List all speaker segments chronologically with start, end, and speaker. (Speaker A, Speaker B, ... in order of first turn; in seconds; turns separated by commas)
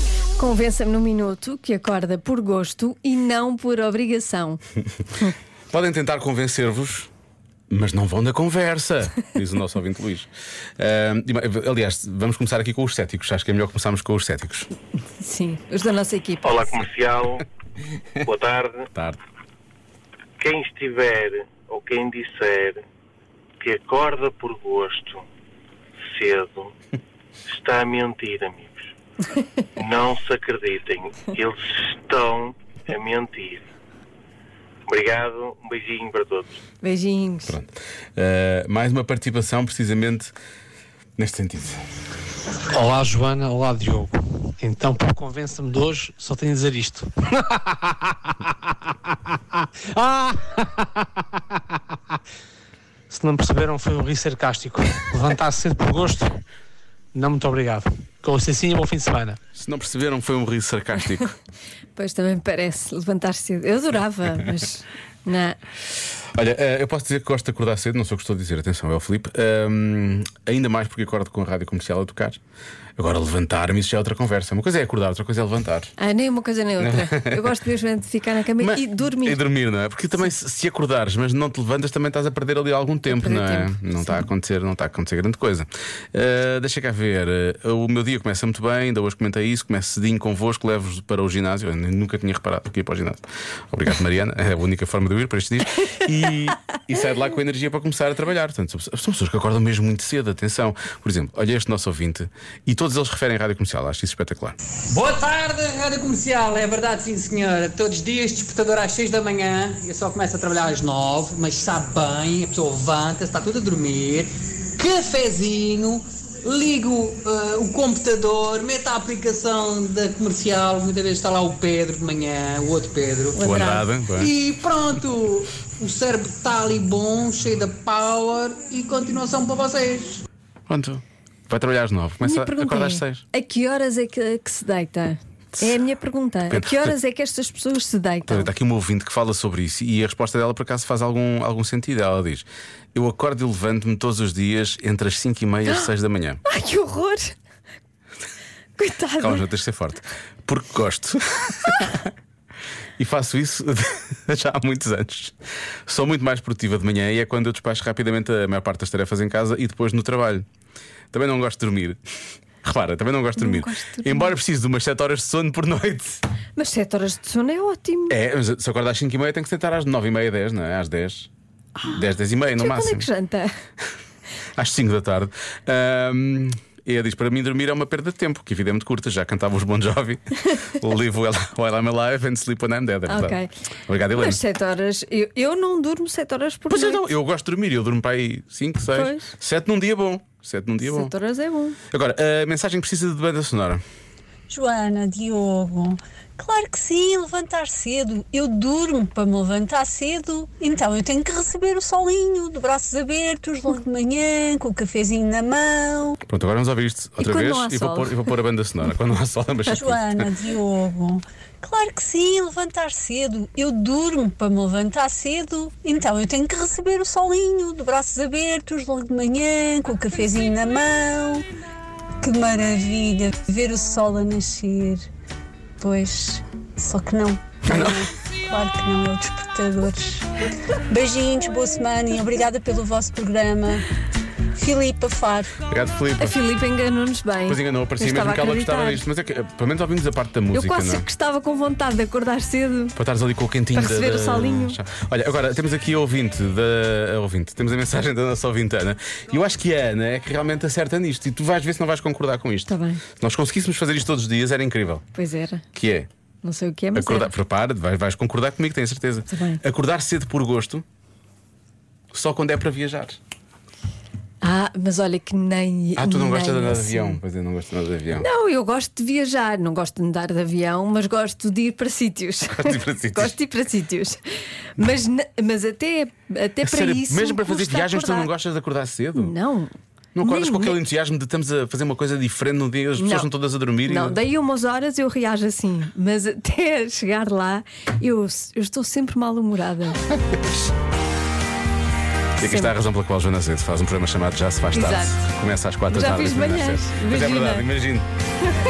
Speaker A: 0.4-4.6, Speaker B: 5.7-7.1, Speaker B: 7.7-14.7, Speaker A: 15.2-16.6, Speaker C: 16.4-17.4, Speaker C: 18.2-18.9, Speaker C: 20.4-22.8, Speaker C: 23.6-25.2, Speaker C: 26.1-26.7, Speaker C: 27.5-28.9, Speaker C: 29.8-33.6, Speaker C: 34.9-36.6, Speaker A: 36.8-37.5, Speaker B: 37.5-40.3, Speaker B: 41.2-41.8, Speaker D: 42.7-48.3, Speaker D: 49.8-51.0, Speaker D: 53.1-56.4, Speaker D: 57.1-59.4, Speaker B: 59.5-61.3, Speaker A: 62.0-65.6, Speaker B: 66.3-72.4, Speaker B: 73.0-75.9, Speaker A: 76.0-79.4, Speaker B: 76.8-77.5, Speaker B: 78.6-104.6, Speaker A: 83.1-84.2, Speaker E: 104.9-123.4, Speaker A: 123.3-123.8, Speaker B: 123.4-124.3, Speaker E: 124.2-130.2, Speaker B: 130.7-133.2, Speaker A: 132.2-138.5, Speaker B: 136.5-136.9, Speaker B: 138.3-146.4, Speaker A: 146.5-147.3, Speaker A: 148.8-149.4, Speaker B: 149.2-152.1, Speaker B: 153.0-155.3, Speaker B: 155.9-160.4, Speaker B: 161.1-162.0, Speaker B: 162.6-166.2, Speaker A: 163.4-164.3, Speaker A: 166.6-168.1, Speaker B: 168.1-171.3, Speaker A: 171.8-173.5, Speaker B: 171.9-173.1, Speaker B: 174.6-184.4, Speaker A: 183.1-183.5, Speaker A: 184.1-187.1, Speaker B: 186.7-191.1, Speaker A: 188.9-189.3, Speaker A: 190.8-191.8, Speaker B: 191.9-193.8, Speaker F: 194.5-206.2, Speaker B: 206.2-210.2, Speaker A: 207.2-208.2, Speaker F: 209.7-221.4, Speaker F: 222.2-225.1, Speaker F: 225.8-230.2, Speaker B: 227.7-228.0, Speaker F: 230.9-233.8, Speaker F: 234.6-235.6, Speaker B: 235.7-236.4, Speaker A: 236.2-239.0, Speaker B: 237.5-241.1, Speaker A: 240.5-242.9, Speaker B: 242.9-255.0, Speaker A: 243.7-244.8, Speaker A: 252.7-253.0, Speaker A: 255.1-255.6, Speaker B: 255.7-256.1, Speaker A: 256.4-257.3, Speaker B: 256.9-260.8, Speaker A: 259.3-259.6, Speaker B: 262.1-263.2, Speaker A: 264.4-267.2, Speaker B: 265.9-268.3, Speaker A: 268.2-278.3, Speaker B: 272.5-273.3, Speaker B: 276.6-279.4, Speaker A: 279.1-280.8, Speaker B: 280.1-284.2, Speaker A: 283.0-283.3, Speaker A: 283.8-290.0, Speaker A: 292.4-292.7, Speaker B: 292.4-298.1, Speaker A: 294.7-295.2, Speaker A: 295.9-297.7